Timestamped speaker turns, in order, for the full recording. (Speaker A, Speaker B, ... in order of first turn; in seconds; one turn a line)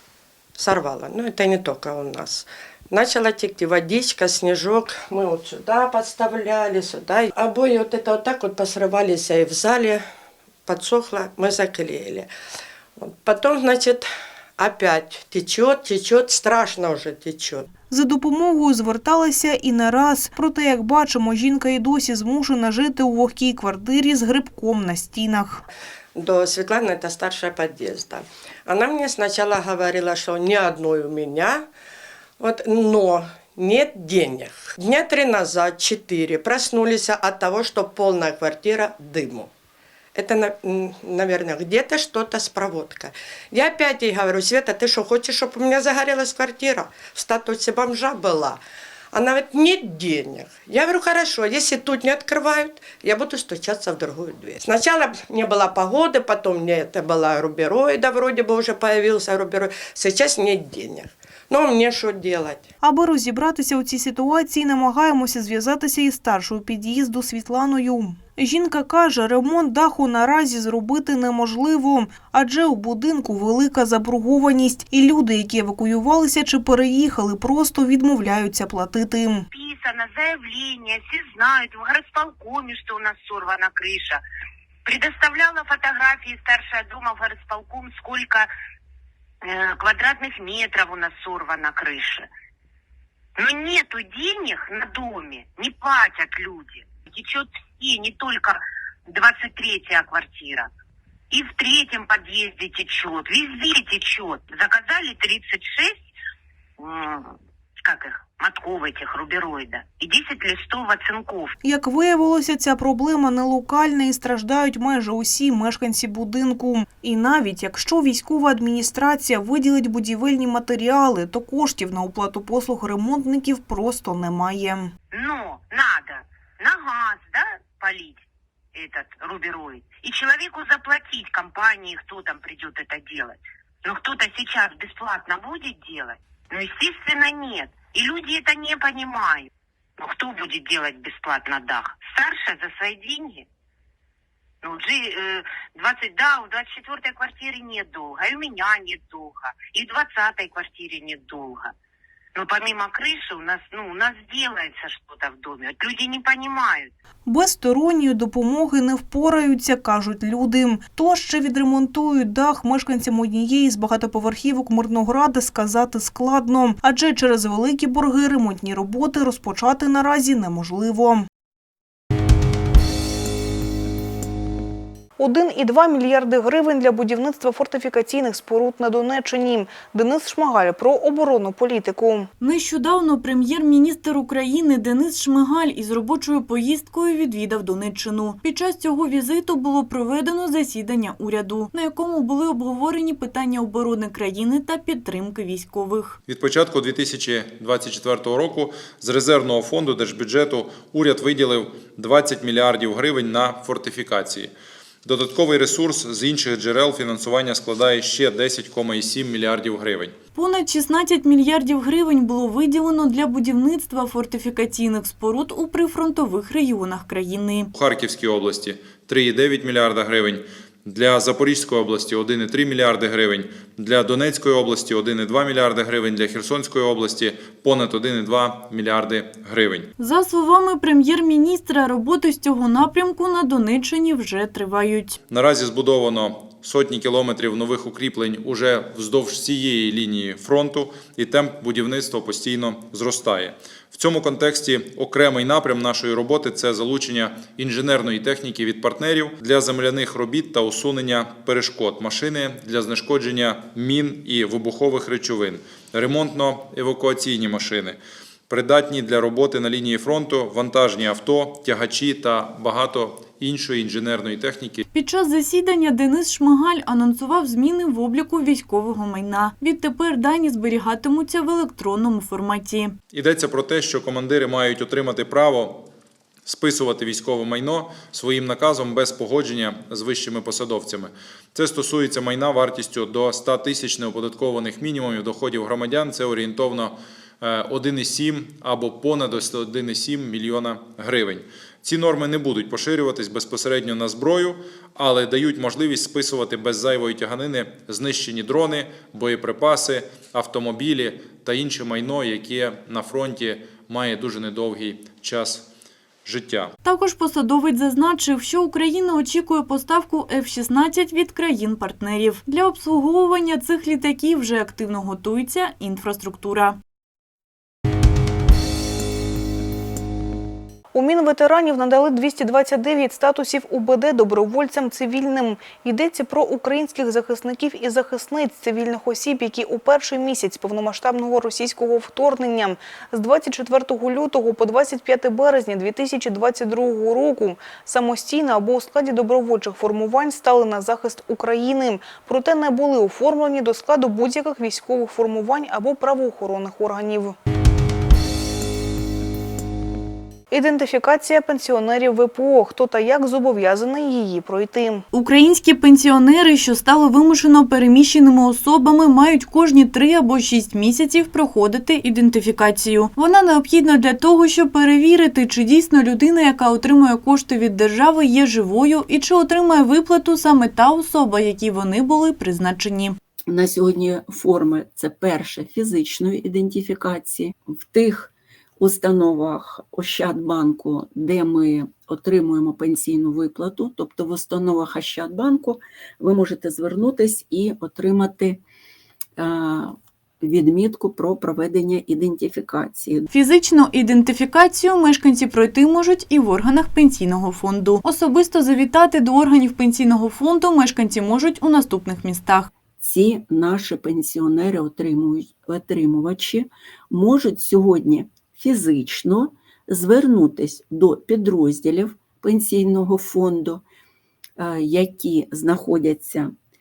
Speaker A: 0.6-10.0
Speaker A: 10.7-12.3
Speaker A: 13.0-14.1
Speaker A: 14.6-17.7
Speaker B: 17.9-25.6
Speaker A: 26.2-31.7
Speaker A: 32.4-39.5
Speaker A: 40.1-48.6
Speaker A: 49.1-62.7
Speaker B: 62.8-79.5
Speaker C: 79.5-84.2
Speaker C: 84.9-88.5
Speaker C: 89.4-92.3
Speaker C: 93.4-100.7
Speaker C: 101.3-106.1
Speaker C: 106.8-111.5
Speaker B: 111.6-124.9
Speaker C: 125.1-128.2
Speaker C: 128.8-143.5
Speaker C: 144.6-151.7
Speaker C: 152.4-156.9
Speaker B: 157.2-171.3
Speaker B: 175.2-182.3
Speaker D: 182.4-196.2
Speaker E: 196.3-204.5
Speaker E: 205.0-210.1
Speaker D: 210.3-217.7
Speaker E: 217.7-229.9
Speaker D: 230.0-235.2
Speaker E: 235.3-264.8
Speaker D: 264.9-272.9
Speaker E: 273.1-275.9
Speaker E: 276.5-305.7
Speaker E: 306.2-306.8
Speaker D: 306.8-316.8
Speaker B: 320.9-347.4
Speaker B: 350.5-355.0
Speaker D: 355.1-373.2
Speaker F: 373.5-388.6
Speaker F: 389.4-393.3
Speaker D: 393.3-402.7
Speaker F: 403.0-413.8
Speaker F: 414.6-416.5